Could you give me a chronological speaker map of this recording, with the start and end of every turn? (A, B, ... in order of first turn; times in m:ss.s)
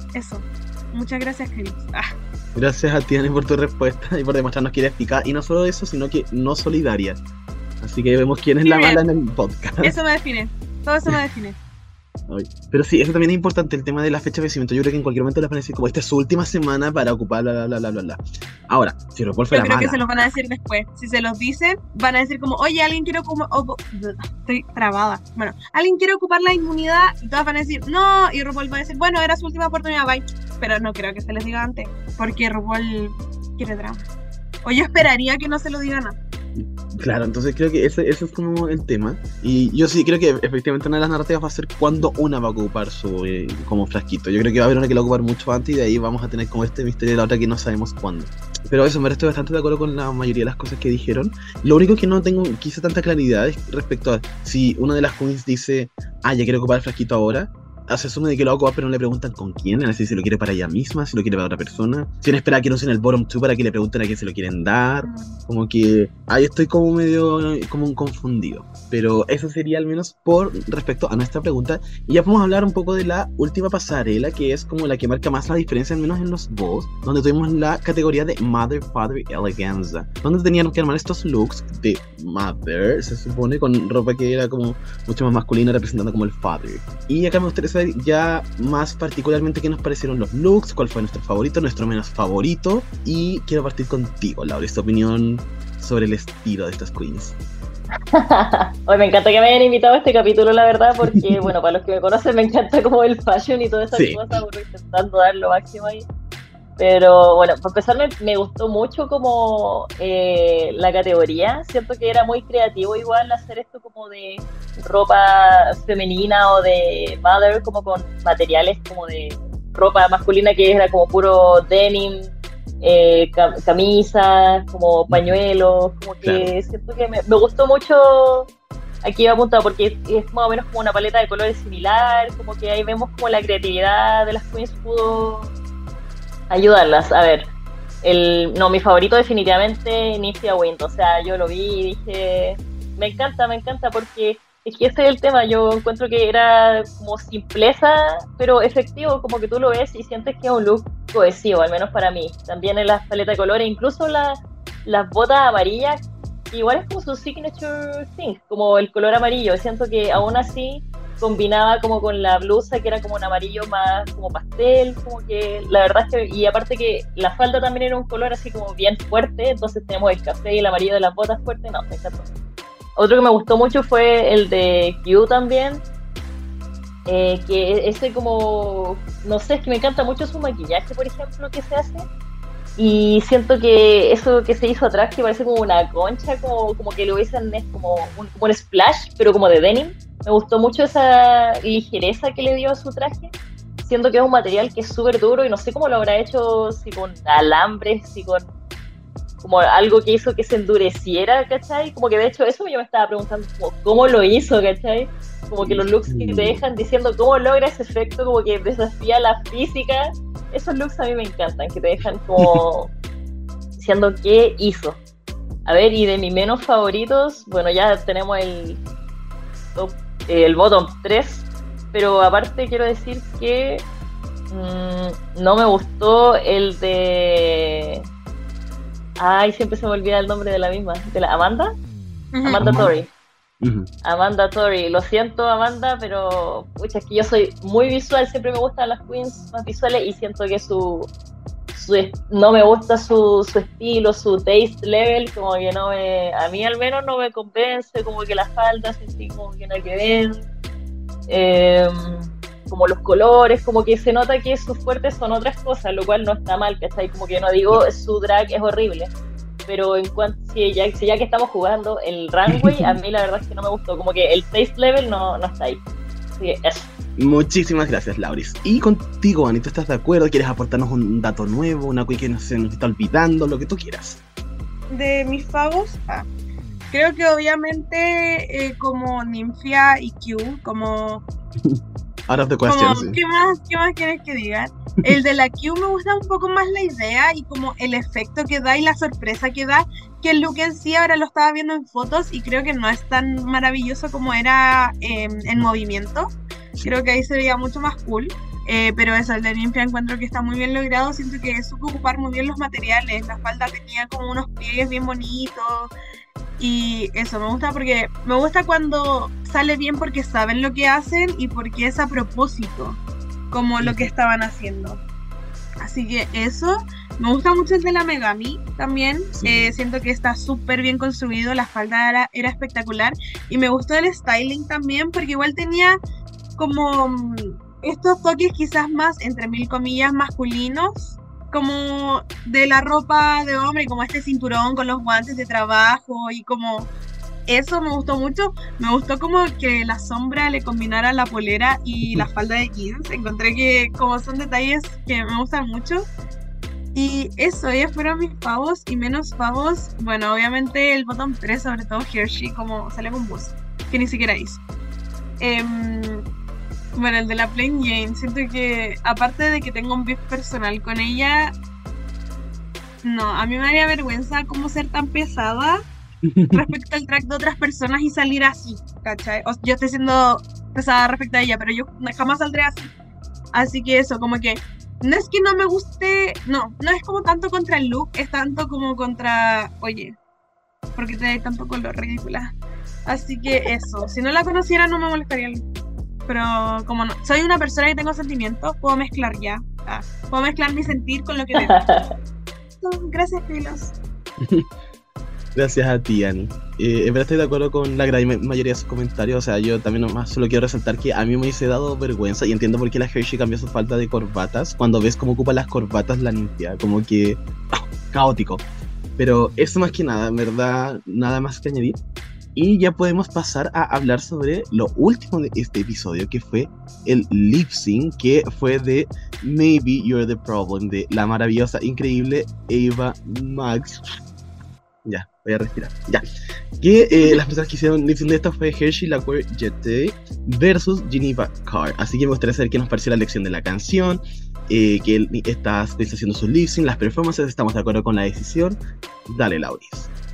0:00.1-0:02.0 A
0:02.6-0:07.2 B
0:07.8-0:10.0 B
0:08.6-0:09.0 A
0:09.8-0:11.6 A
0:12.3-0:20.0 B
0:19.5-0:34.1 A
0:34.6-0:36.2 A
0:36.6-1:37.4 B
1:05.0-1:05.4 A
1:38.1-1:46.1 C
1:41.1-1:41.4 B
1:43.9-1:44.4 B
1:46.8-2:08.5 C
2:05.1-2:05.4 B
2:06.2-2:06.5 B
2:09.0-2:15.5 C
2:16.5-2:17.5 C
2:18.0-2:52.3 C
2:53.0-2:55.8 C
2:57.1-3:02.1 C
3:02.8-3:18.5 C
3:19.4-3:32.9 C
3:25.6-3:26.6 B
3:33.8-3:35.0 C
3:35.7-3:38.8 C
3:39.8-3:43.8 C
3:44.5-3:48.0 C
3:49.2-3:51.7 C
3:52.3-3:52.6 A
3:52.4-3:53.1 C
3:52.6-3:52.9 B
3:53.6-3:53.9 B
3:54.0-4:01.1 C
4:01.7-4:10.5 C
4:11.3-4:19.1 C
4:19.7-4:25.8 C
4:22.5-4:22.9 B
4:26.4-4:26.9 C
4:27.2-4:34.2 B
4:34.9-4:36.3 A
4:36.9-4:41.2 A
4:41.6-4:43.2 B
4:42.7-5:05.9 A
5:06.6-5:13.0 A
5:13.5-5:15.0 A
5:13.8-5:14.1 B
5:15.8-5:26.0 A
5:19.4-5:19.8 B
5:26.6-5:36.9 A
5:37.5-5:46.1 A
5:47.0-5:54.6 A
5:55.4-5:56.2 A
5:57.0-6:01.5 A
6:03.0-6:05.8 A
6:06.3-6:06.6 B
6:06.5-6:12.9 A
6:13.5-6:20.2 A
6:21.0-6:22.6 A
6:23.1-6:25.6 A
6:26.3-6:32.0 A
6:31.6-6:32.0 C
6:32.8-6:34.0 A
6:34.4-6:34.7 B
6:35.6-6:47.4 B
6:48.1-6:48.6 B
6:49.2-6:52.0 B
6:52.6-7:04.1 B
7:05.0-7:06.2 B
7:06.8-7:20.1 B